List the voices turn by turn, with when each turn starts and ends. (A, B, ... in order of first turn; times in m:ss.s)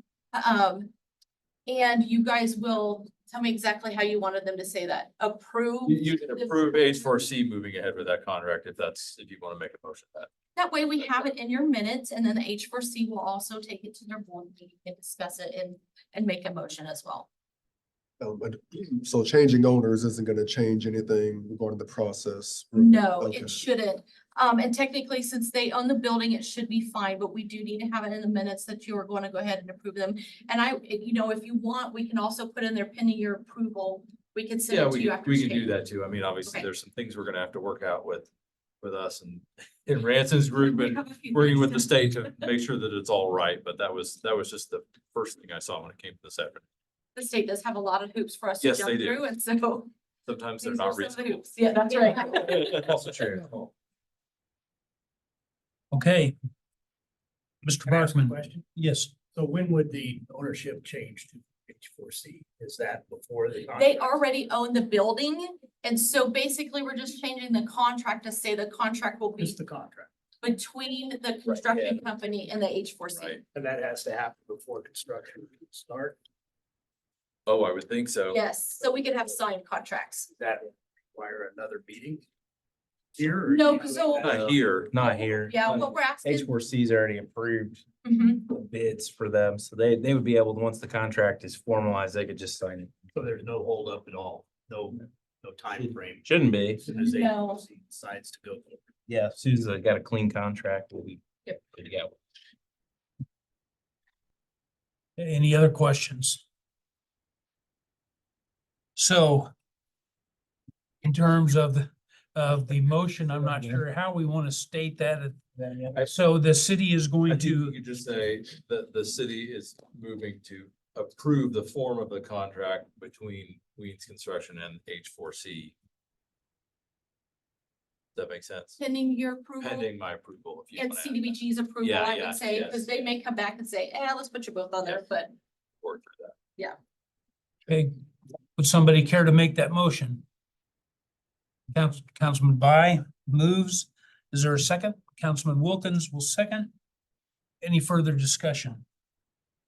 0:00.3-0:00.9 A
0:01.7-0:06.9 A
0:05.8-0:10.3 B
0:10.6-0:17.3 A
0:18.2-0:23.6 C
0:22.8-0:35.8 A
0:34.7-0:38.3 B
0:38.8-0:46.6 B
0:40.6-0:41.9 A
0:47.1-0:49.9 A
0:48.6-0:49.3 B
0:50.2-0:51.4 B
0:50.6-0:52.8 A
0:52.4-0:53.7 B
0:55.9-0:56.3 D
0:57.6-0:59.1 D
0:57.8-0:58.6 E
0:59.2-1:04.1 E
1:03.7-1:09.6 A
1:09.4-1:10.1 E
1:10.4-1:13.4 A
1:13.1-1:13.4 B
1:13.5-1:16.2 E
1:17.5-1:18.4 B
1:18.3-1:20.3 A
1:20.3-1:22.2 E
1:23.2-1:24.6 E
1:23.5-1:24.4 A
1:24.2-1:24.9 B
1:24.2-1:27.8 F
1:25.0-1:26.5 A
1:28.0-1:28.4 A
1:28.4-1:33.0 F
1:33.1-1:36.2 E
1:36.2-1:36.8 F
1:36.8-1:38.8 E
1:36.9-1:37.6 A
1:39.1-1:42.1 F
1:45.2-1:46.4 D
1:49.0-1:49.5 D
1:51.0-1:55.4 D
1:55.9-1:57.8 D
1:57.3-2:05.7 B
2:08.1-2:08.8 B
2:08.8-2:09.9 A
2:09.6-2:13.0 B
2:10.8-2:15.3 A
2:15.8-2:16.3 B
2:17.7-2:18.0 D
2:18.6-2:20.2 D
2:21.7-2:26.7 D
2:27.6-2:28.8 D